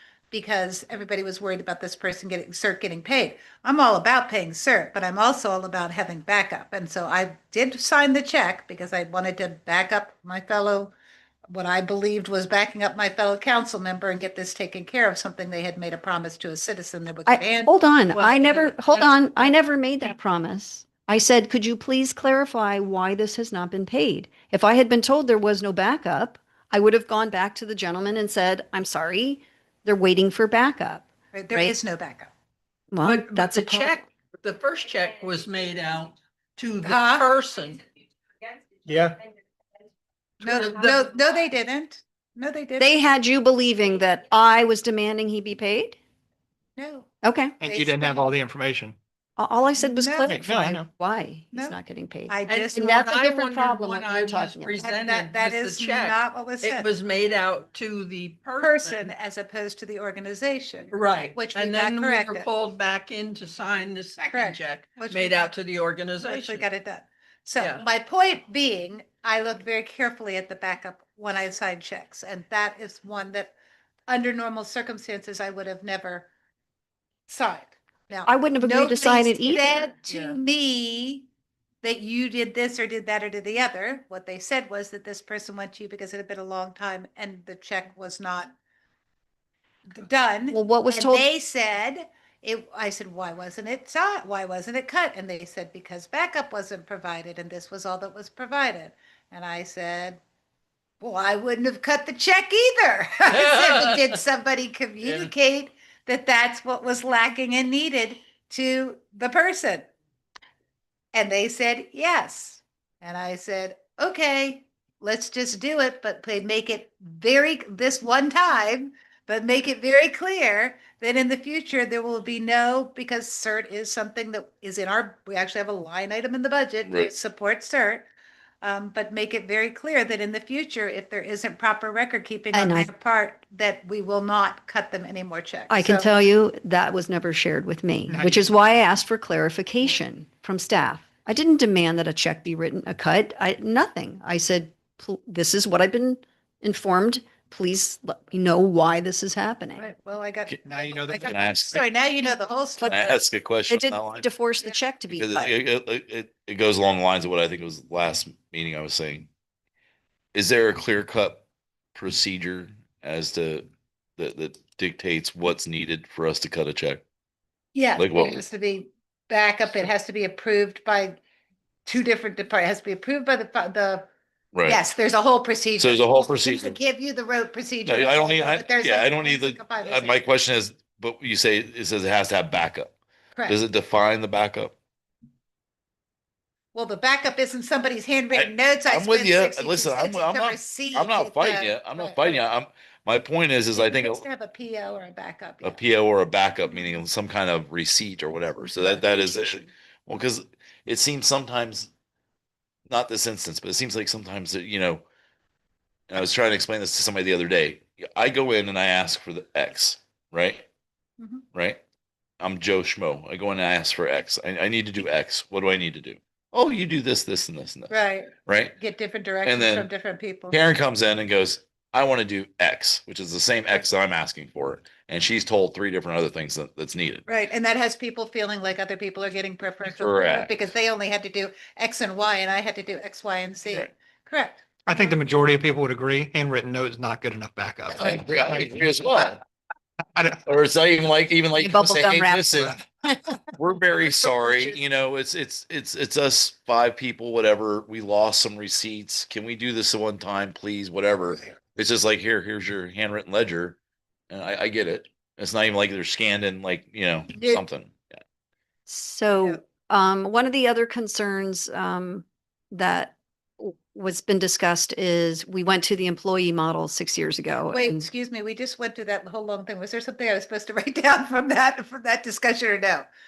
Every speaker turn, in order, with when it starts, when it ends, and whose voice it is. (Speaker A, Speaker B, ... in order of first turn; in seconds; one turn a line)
Speaker A: 0.3-10.9
Speaker A: 11.5-17.7
Speaker B: 17.3-31.8
Speaker C: 18.1-19.1
Speaker A: 31.3-32.3
Speaker B: 32.9-34.0
Speaker C: 33.0-37.8
Speaker A: 36.8-37.3
Speaker D: 38.9-39.2
Speaker C: 40.4-41.1
Speaker A: 40.4-42.9
Speaker B: 42.8-46.0
Speaker A: 46.8-48.3
Speaker B: 47.2-47.6
Speaker D: 47.6-49.0
Speaker B: 49.4-54.8
Speaker A: 49.8-50.4
Speaker D: 50.3-50.9
Speaker A: 52.3-53.0
Speaker C: 52.5-59.1
Speaker A: 54.8-56.9
Speaker A: 58.6-62.5
Speaker C: 60.9-66.7
Speaker A: 64.3-65.5
Speaker A: 66.2-73.5
Speaker C: 67.6-67.8
Speaker A: 74.1-76.3
Speaker A: 77.3-81.3
Speaker B: 78.3-79.9
Speaker A: 81.8-88.5
Speaker A: 89.9-100.2
Speaker B: 90.5-91.3
Speaker A: 101.0-109.9
Speaker C: 103.3-104.2
Speaker C: 105.0-105.3
Speaker A: 111.1-128.1
Speaker E: 126.8-127.1
Speaker A: 128.6-136.1
Speaker B: 132.5-132.9
Speaker B: 135.7-149.9
Speaker D: 138.1-138.4
Speaker A: 149.8-153.1
Speaker D: 150.7-151.8
Speaker E: 151.2-151.8
Speaker B: 152.8-153.1
Speaker E: 152.9-154.3
Speaker B: 153.7-155.5
Speaker E: 155.1-159.3
Speaker E: 160.3-167.0
Speaker A: 167.8-171.2
Speaker E: 168.0-168.4
Speaker A: 171.9-174.1
Speaker E: 174.5-174.8
Speaker A: 174.7-180.2
Speaker E: 175.8-176.8
Speaker E: 177.9-182.9
Speaker E: 183.5-184.7
Speaker A: 186.7-192.4
Speaker E: 188.3-194.2
Speaker A: 193.7-195.8
Speaker E: 195.6-201.9
Speaker A: 196.7-197.0
Speaker E: 202.9-205.1
Speaker E: 206.1-210.7
Speaker A: 211.2-211.4
Speaker E: 212.4-217.9
Speaker A: 217.9-220.6
Speaker E: 218.4-218.8
Speaker E: 219.4-219.9
Speaker E: 220.5-227.2
Speaker A: 227.3-235.1
Speaker E: 229.9-230.6
Speaker D: 234.9-238.8
Speaker E: 237.9-239.4
Speaker E: 240.4-242.8
Speaker B: 241.6-242.4
Speaker E: 243.6-253.8
Speaker E: 254.3-258.1
Speaker A: 257.3-257.6
Speaker B: 258.9-268.1
Speaker A: 267.7-273.1